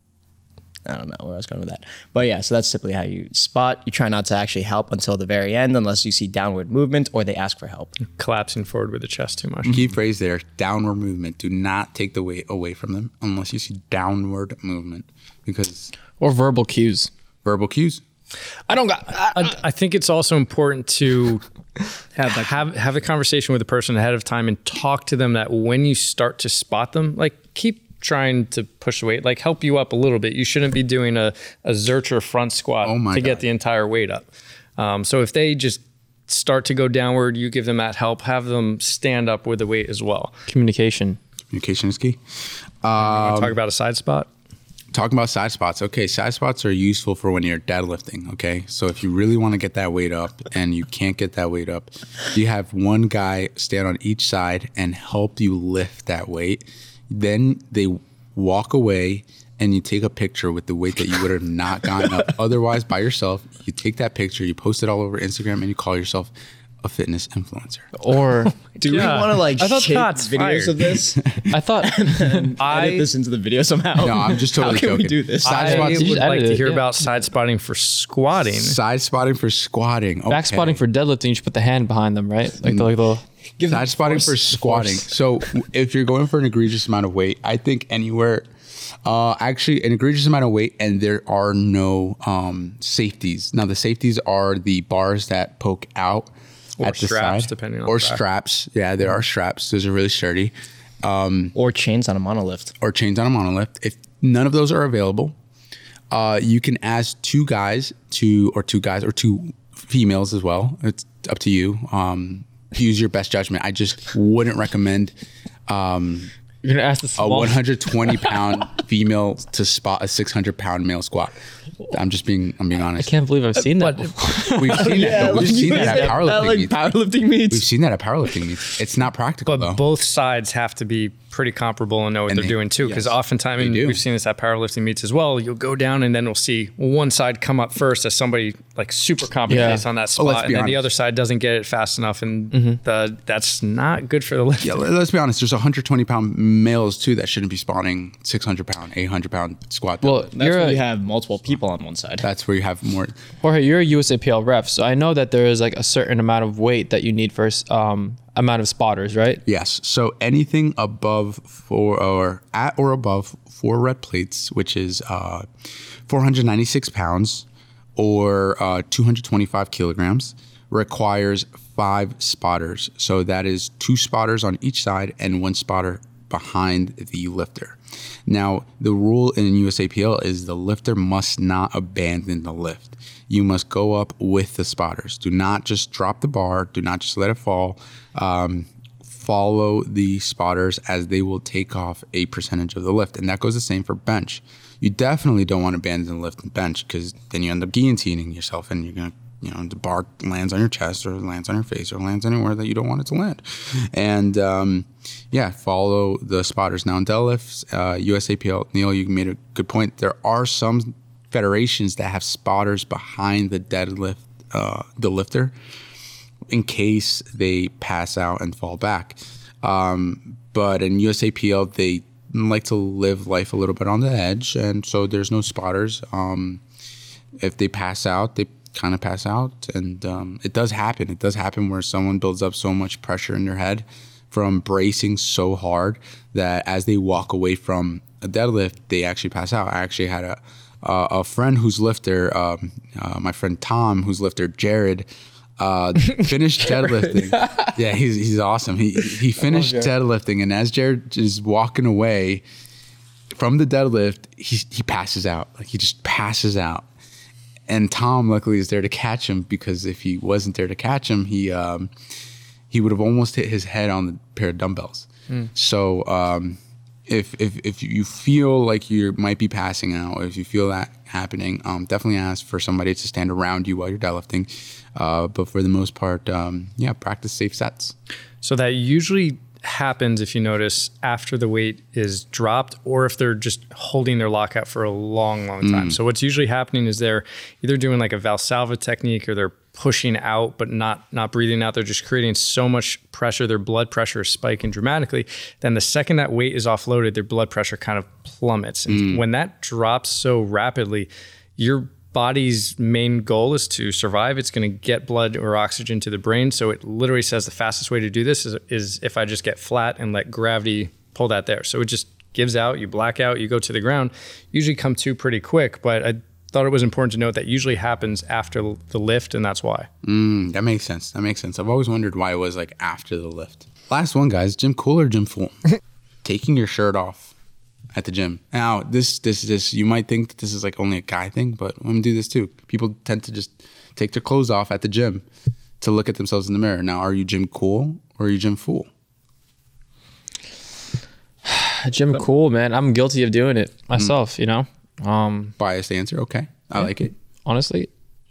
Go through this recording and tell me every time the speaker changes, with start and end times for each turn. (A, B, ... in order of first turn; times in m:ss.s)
0:00.9-0:08.0 A
0:08.0-0:09.8 B
0:09.6-0:15.9 C
0:16.2-0:17.1 D
0:17.4-0:18.0 C
0:18.7-0:19.5 D
0:19.1-0:21.4 B
0:22.2-0:22.7 A
0:22.3-0:34.2 B
0:32.8-0:33.4 C
0:34.8-0:40.4 B
0:40.5-0:41.2 D
0:41.5-0:42.2 C
0:42.8-0:43.6 C
0:43.0-0:44.3 B
0:44.9-1:07.9 C
1:08.0-1:08.6 D
1:08.8-1:11.2 A
1:08.9-1:11.0 B
1:11.5-1:12.5 D
1:11.8-1:15.7 A
1:12.6-1:13.1 B
1:14.0-1:16.2 C
1:15.4-1:18.8 B
1:15.5-1:16.8 D
1:18.5-1:20.8 C
1:20.3-1:23.2 D
1:22.6-1:22.9 C
1:23.6-1:25.0 A
1:23.7-1:28.5 C
1:29.0-1:41.6 C
1:36.8-1:38.2 B
1:41.6-1:42.7 A
1:42.8-1:45.4 C
1:46.1-1:55.1 C
1:55.7-1:56.3 C
1:56.6-1:58.4 D
1:57.2-2:01.4 C
2:01.9-2:03.1 C
2:03.0-2:05.7 D
2:03.6-2:04.5 B
2:04.5-2:06.8 C
2:04.6-2:07.7 A
2:07.5-2:09.8 C
2:09.5-2:24.8 B
2:12.3-2:12.6 C
2:13.6-2:14.0 C
2:19.5-2:20.8 C
2:19.5-2:19.8 D
2:22.5-2:22.8 D
2:24.6-2:30.3 C
2:30.0-2:30.8 D
2:30.3-2:32.3 A
2:32.2-2:33.2 C
2:33.4-2:39.4 D
2:39.5-2:45.5 C
2:46.1-3:35.6 C
3:36.5-3:46.6 C
3:47.4-4:05.1 C
4:05.6-4:12.4 C
4:07.3-4:07.7 D
4:09.4-4:09.9 D
4:13.3-4:16.9 C
4:17.7-4:21.9 C
4:22.7-4:38.0 C
4:38.4-5:19.9 B
4:45.6-4:46.0 C
4:58.9-4:59.2 C
5:20.0-5:25.6 C
5:26.2-5:27.4 C
5:27.9-5:35.2 C
5:35.8-5:38.9 C
5:41.4-5:45.6 D
5:45.6-5:47.1 C
5:47.4-5:47.9 D